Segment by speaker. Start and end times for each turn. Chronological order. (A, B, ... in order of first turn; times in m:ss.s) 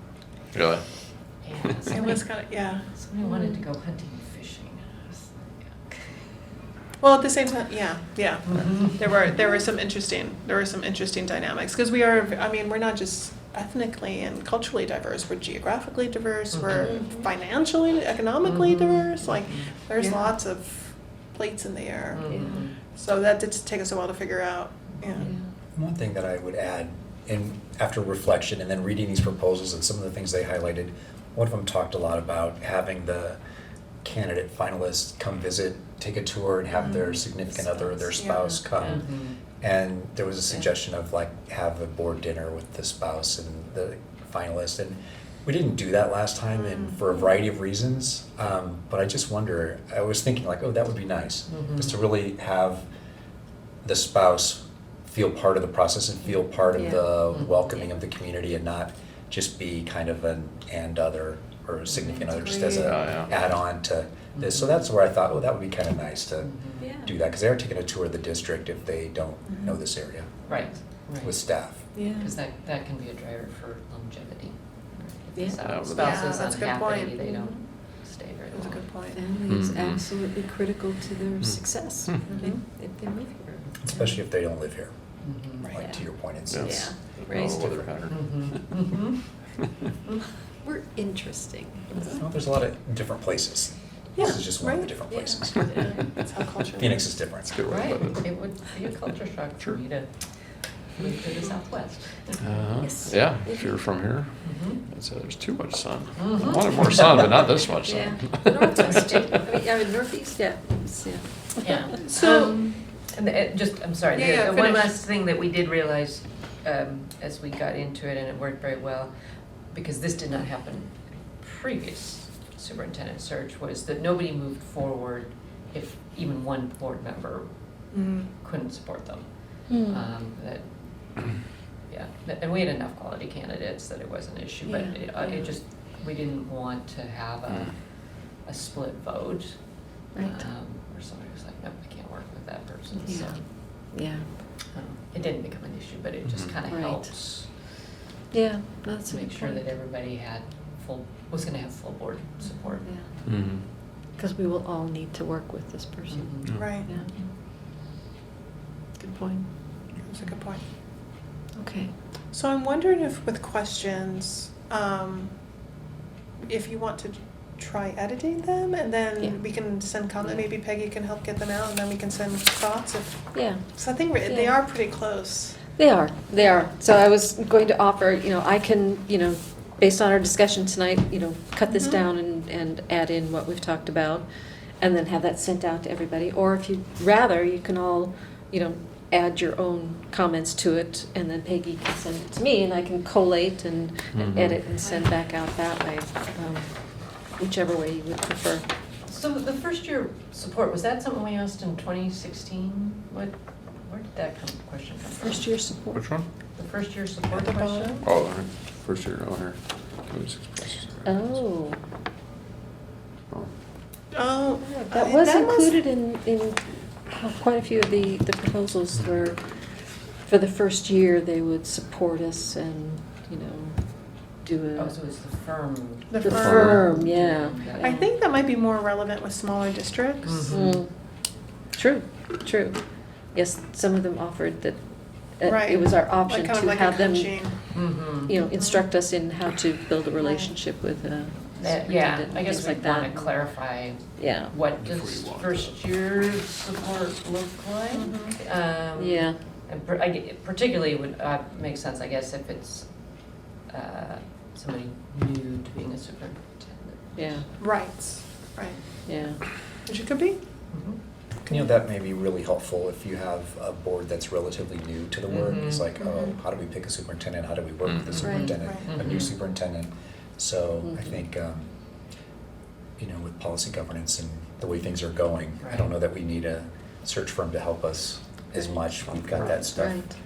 0:00.5-0:00.8 A
0:01.4-0:02.1 B
0:01.9-0:02.8 C
0:02.9-0:05.0 B
0:03.2-0:03.5 D
0:07.0-0:25.3 C
0:08.5-0:08.9 B
0:16.5-0:16.9 B
0:16.8-0:17.3 D
0:18.5-0:19.7 B
0:20.0-0:20.3 D
0:22.1-0:22.7 B
0:22.2-0:22.7 D
0:25.0-0:25.3 B
0:25.2-0:25.4 D
0:25.7-0:33.4 E
0:34.0-0:39.0 E
0:38.2-0:38.5 C
0:38.8-0:39.4 B
0:39.6-0:52.8 E
0:46.6-0:46.9 C
0:51.5-0:52.0 B
0:53.8-1:06.5 E
0:56.7-0:57.2 D
0:57.3-0:57.7 B
1:01.9-1:02.2 B
1:02.4-1:03.0 C
1:02.8-1:03.3 A
1:04.4-1:04.7 B
1:06.4-1:06.9 B
1:06.8-1:07.1 D
1:07.0-1:10.3 E
1:10.4-1:11.3 B
1:11.2-1:11.8 E
1:11.9-1:12.3 D
1:12.2-1:18.8 B
1:15.6-1:16.1 A
1:16.0-1:17.5 C
1:18.5-1:19.2 C
1:19.1-1:23.8 D
1:19.4-1:20.1 A
1:21.4-1:22.2 A
1:23.8-1:24.9 E
1:25.2-1:25.7 B
1:25.7-1:26.9 E
1:26.5-1:28.6 A
1:26.6-1:27.5 D
1:27.4-1:27.9 E
1:28.1-1:29.2 B
1:30.6-1:32.2 D
1:32.1-1:35.7 E
1:34.2-1:34.9 C
1:35.1-1:36.1 D
1:35.6-1:37.1 C
1:36.8-1:37.5 E
1:37.4-1:38.3 A
1:37.7-1:40.1 B
1:41.0-1:42.4 B
1:42.4-1:48.6 A
1:42.7-1:43.8 D
1:44.4-1:44.8 B
1:46.2-1:47.2 B
1:47.8-1:52.1 D
1:48.8-1:49.4 B
1:51.6-1:59.1 B
1:52.1-1:52.6 C
1:54.1-1:54.9 C
1:59.7-2:07.5 B
2:07.9-2:08.3 C
2:08.4-2:09.3 B
2:09.7-2:10.0 D
2:09.8-2:10.6 B
2:11.9-2:17.7 B
2:14.6-2:15.5 D
2:18.4-2:19.5 B
2:20.1-2:20.4 D
2:20.2-2:23.4 B
2:22.9-2:23.3 D
2:23.9-2:24.2 D
2:24.7-2:27.5 B
2:26.2-2:26.5 A
2:26.6-2:27.1 D
2:28.3-2:29.7 D
2:29.1-2:32.9 B
2:32.7-2:33.1 D
2:33.2-2:33.6 A
2:34.2-2:37.2 D
2:36.1-2:37.1 B
2:36.4-2:36.8 A
2:36.5-2:36.9 C
2:39.0-2:39.5 D
2:40.0-2:40.6 C
2:41.6-2:41.9 D
2:42.3-2:45.3 C
2:46.4-2:55.6 C
2:50.2-2:50.5 B
2:53.3-2:54.6 D
2:55.7-3:04.3 D
3:01.7-3:02.0 C
3:04.8-3:16.7 D
3:14.1-3:14.6 A
3:17.4-3:18.6 D
3:19.1-3:25.4 B
3:25.1-3:26.1 D
3:25.9-3:26.2 A
3:26.6-3:28.1 B
3:27.3-3:28.0 C
3:28.0-3:31.4 A
3:31.0-3:31.8 D
3:34.1-3:35.8 C
3:34.6-3:39.4 D
3:40.2-3:43.8 D
3:44.4-3:45.0 D
3:44.8-3:46.2 B
3:46.1-3:46.9 C
3:46.2-3:48.1 D
3:46.3-3:46.8 A
3:46.9-3:47.9 B
3:47.8-3:50.6 C
3:50.2-3:50.8 B
3:50.5-3:50.9 D
3:51.7-3:52.8 D
3:53.3-3:54.8 D
3:55.4-3:57.4 D
3:55.4-3:57.6 C
3:57.7-3:58.4 B
3:58.1-4:03.4 D
3:58.6-3:58.8 C
4:00.2-4:00.5 C
4:01.6-4:12.9 B
4:04.2-4:04.6 D
4:04.8-4:05.7 A
4:07.9-4:08.4 C
4:08.9-4:09.4 D
4:13.7-4:17.3 B
4:17.2-4:17.4 D
4:17.6-4:18.8 C
4:19.0-4:19.4 D
4:19.8-4:20.4 C
4:20.7-4:21.0 B
4:21.4-4:31.7 E
4:25.3-4:25.8 B
4:27.8-4:28.2 A
4:28.2-4:29.4 B
4:28.2-4:28.5 D
4:28.6-4:28.9 C
4:33.0-4:40.0 E
4:35.6-4:35.9 B
4:39.6-4:40.1 D